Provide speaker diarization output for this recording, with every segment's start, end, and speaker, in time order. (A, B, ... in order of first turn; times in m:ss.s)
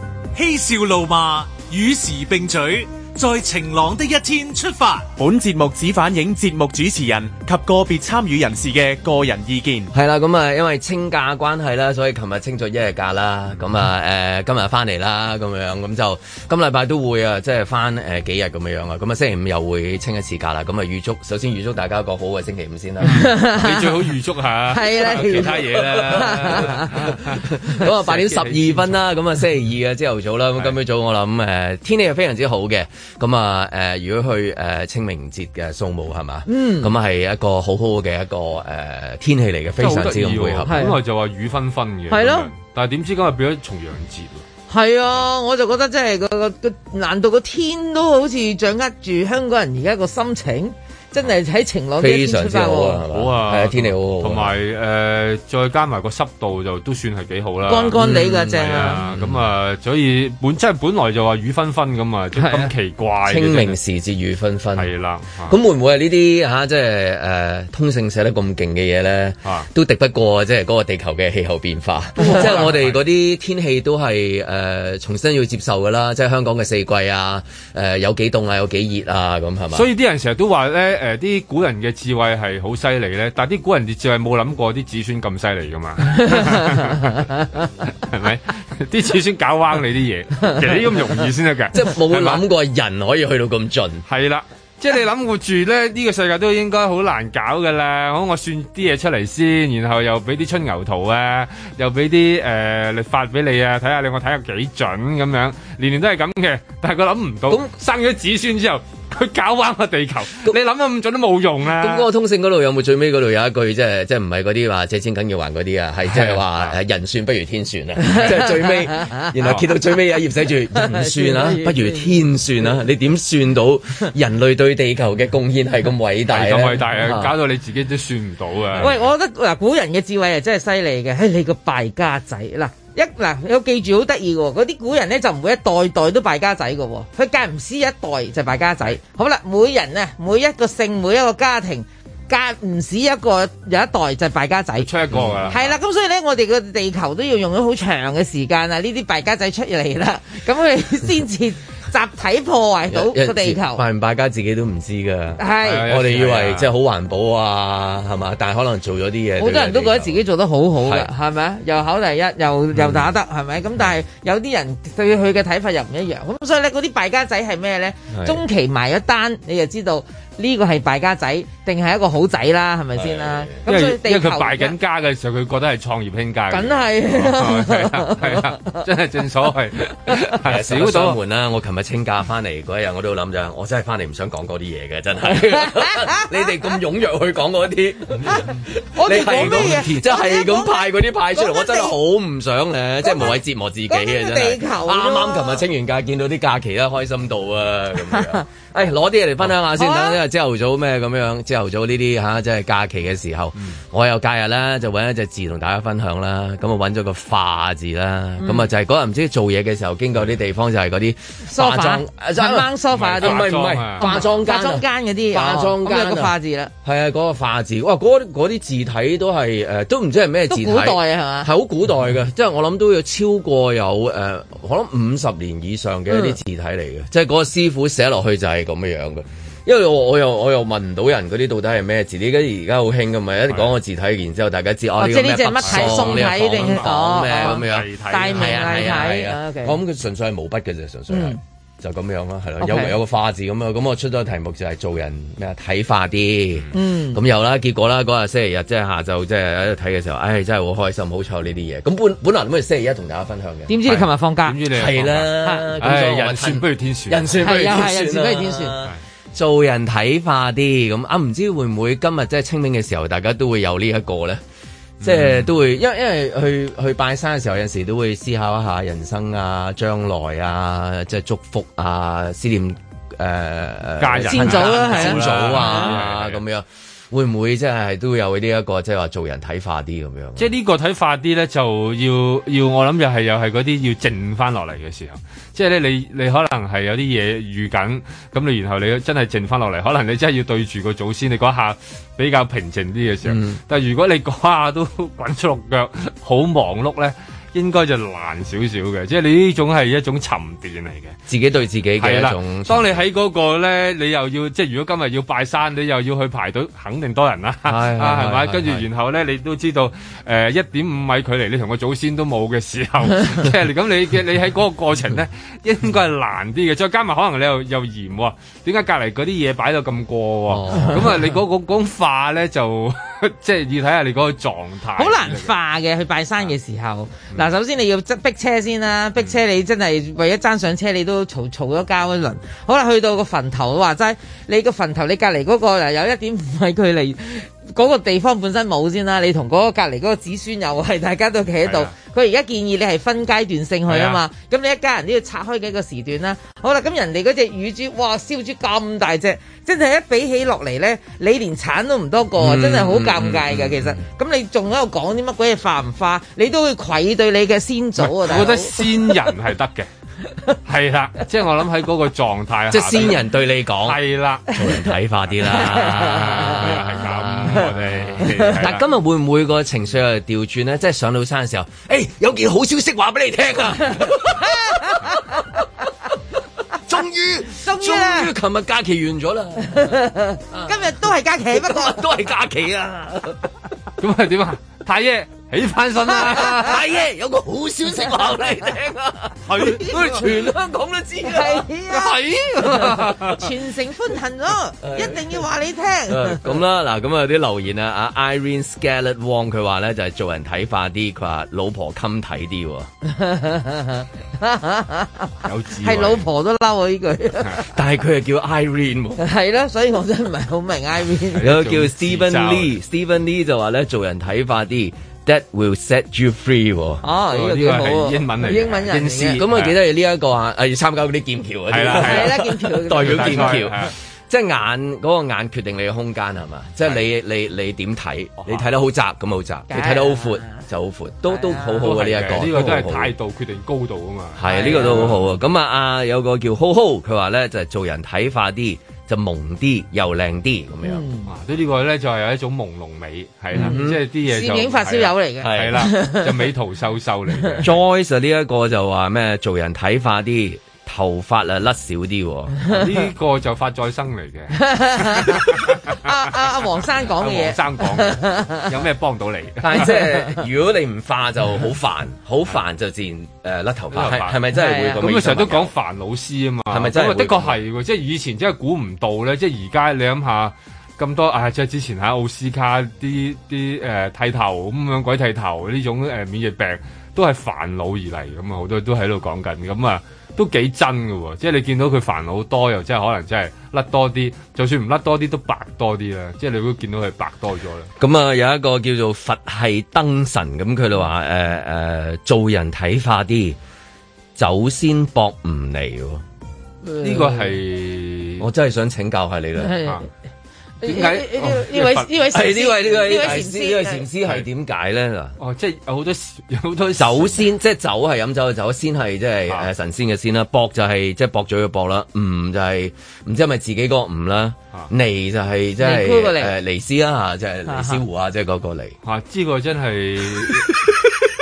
0:00.3-0:05.1 A
0:05.2-0:09.9 B
0:09.9-0:23.3 C
0:23.0-0:23.9 D
0:23.5-0:29.0 E
0:24.7-0:27.2 D
0:25.6-0:40.8 C
0:36.5-0:36.9 D
0:39.8-0:44.4 E
0:40.7-0:41.0 D
0:42.1-0:42.5 D
0:44.7-0:53.0 D
0:52.0-0:54.5 C
0:53.1-1:03.8 E
0:57.7-0:59.0 D
0:58.0-0:59.5 C
1:02.4-1:02.7 D
1:03.3-1:04.9 C
1:04.8-1:05.6 E
1:05.5-1:19.9 C
1:12.2-1:13.0 E
1:19.7-1:32.4 E
1:26.3-1:26.8 D
1:31.7-1:34.0 C
1:34.1-1:52.1 E
1:51.8-2:07.3 C
1:56.1-1:56.7 E
1:58.1-1:59.2 D
2:00.8-2:02.1 D
2:06.3-2:09.0 E
2:08.8-2:24.9 D
2:24.8-2:25.7 E
2:25.1-2:25.6 C
2:25.5-2:33.8 D
2:32.9-2:40.2 C
2:35.4-2:35.8 D
2:35.6-2:36.7 E
2:39.4-2:54.7 D
2:40.8-2:41.1 C
2:42.8-2:43.1 C
2:48.1-2:48.4 C
2:53.0-2:53.6 C
2:53.7-3:01.2 E
2:56.5-2:58.8 D
3:00.3-4:13.8 C
3:05.7-3:06.3 D
3:09.0-3:12.0 D
3:13.0-3:13.4 D
3:13.9-3:15.6 D
3:18.1-3:18.4 D
3:19.6-3:20.2 D
3:28.4-3:28.7 D
3:31.4-3:36.7 D
3:32.9-3:34.1 E
3:40.5-3:41.5 D
3:46.1-3:46.4 D
3:55.0-3:59.8 D
3:55.6-3:59.1 E
4:01.1-4:01.4 D
4:02.6-4:03.0 D
4:06.7-4:07.2 D
4:13.7-4:14.6 D
4:13.9-4:17.4 E
4:14.7-4:24.4 C
4:15.4-4:15.7 D
4:17.4-4:18.8 D
4:25.0-4:40.5 C
4:25.0-4:25.4 E
4:34.0-4:36.4 E
4:34.2-4:35.9 D
4:40.4-5:01.2 E
4:53.2-4:53.6 C
5:01.3-5:03.0 C
5:02.0-5:25.5 E
5:07.6-5:08.9 C
5:20.5-5:21.2 C
5:25.0-5:58.7 D
5:41.6-5:41.9 E
5:43.9-5:44.2 E
5:52.4-5:54.0 C
5:58.0-5:59.9 E
6:00.6-6:04.5 E
6:02.7-6:15.4 C
6:05.4-6:08.8 E
6:05.5-6:06.6 D
6:08.2-6:08.6 D
6:14.1-6:15.0 D
6:16.9-6:19.9 C
6:17.5-6:18.3 D
6:19.7-6:22.0 D
6:20.5-6:20.9 C
6:21.5-6:23.5 C
6:24.0-6:26.9 E
6:26.3-6:31.7 C
6:29.5-6:30.3 E
6:31.2-6:36.6 D
6:31.9-6:33.5 E
6:34.8-6:35.4 C
6:36.1-6:42.9 C
6:43.0-6:47.6 D
6:45.4-6:46.3 E
6:47.6-6:49.2 C
6:49.2-6:51.5 D
6:51.4-6:52.8 E
6:51.4-6:57.0 C
6:57.0-6:59.4 D
6:57.3-6:59.8 E
6:59.4-7:13.1 C
7:01.7-7:03.9 E
7:02.0-7:03.7 D
7:09.7-7:10.6 D
7:11.3-7:11.9 D
7:11.8-7:15.2 E
7:14.4-7:21.0 C
7:14.4-7:15.1 D
7:20.8-7:21.3 D
7:21.3-7:27.7 E
7:23.5-7:24.0 C
7:23.5-7:26.5 D
7:25.4-7:25.9 C
7:27.6-7:32.6 C
7:32.7-7:35.8 E
7:34.6-7:38.7 D
7:37.1-7:40.0 E
7:39.6-7:45.7 C
7:43.9-8:07.9 E
7:44.5-7:45.0 D
7:46.7-7:47.6 C
8:08.0-8:13.6 C
8:14.4-8:16.2 C
8:16.8-8:17.4 D
8:17.0-8:18.5 E
8:18.4-8:19.8 C
8:19.6-8:20.0 D
8:20.8-8:22.1 E
8:20.8-8:24.0 D
8:22.3-8:25.4 C
8:25.4-8:27.5 E
8:27.0-8:39.0 C
8:35.8-8:36.5 D
8:37.7-8:38.0 D
8:39.0-8:40.8 E
8:40.5-8:41.0 C